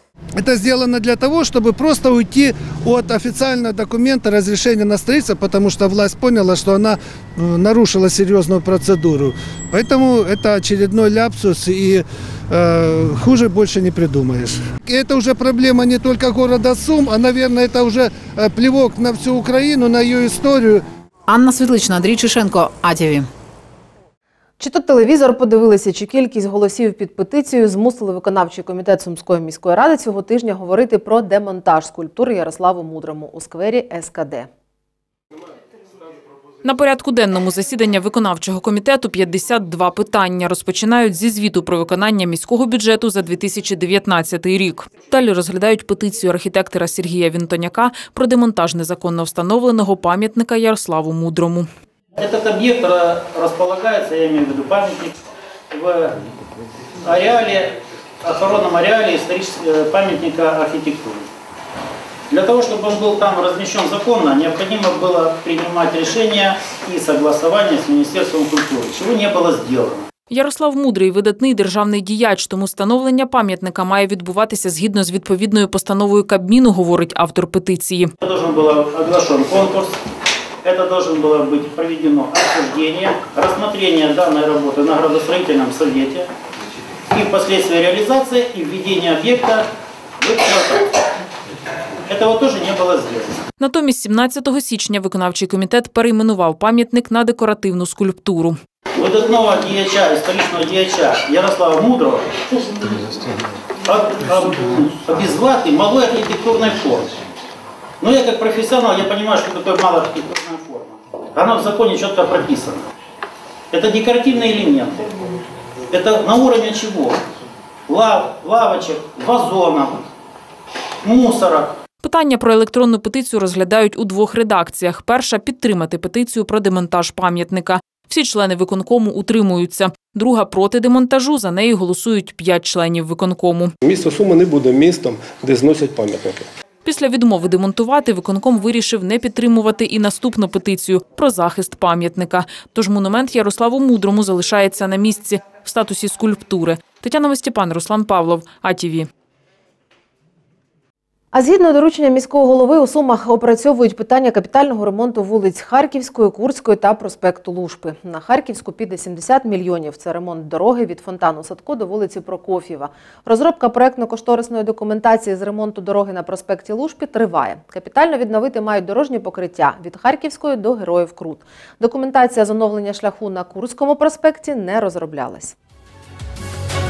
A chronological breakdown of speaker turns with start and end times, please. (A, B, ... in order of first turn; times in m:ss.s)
0:00.4-0:20.8 A
0:21.3-0:23.3 B
0:24.6-0:34.5 C
0:36.6-0:51.7 D
0:52.2-0:55.1 E
0:55.7-0:56.2 E
0:57.0-1:01.3 E
1:02.3-1:10.1 E
1:10.3-1:18.1 D
1:18.2-1:20.0 E
1:20.6-1:26.3 E
1:27.1-1:29.7 E
1:30.2-1:30.8 E
1:32.1-1:33.4 E
1:33.6-1:38.6 D
1:39.0-1:43.0 E
1:43.8-1:47.2 E
1:48.0-1:52.9 E
1:53.7-1:55.3 E
1:55.9-1:57.2 E
1:57.9-2:00.1 E
2:01.0-2:01.8 E
2:02.0-2:13.7 D
2:13.8-2:16.5 F
2:16.8-2:29.1 D
2:31.3-2:55.6 C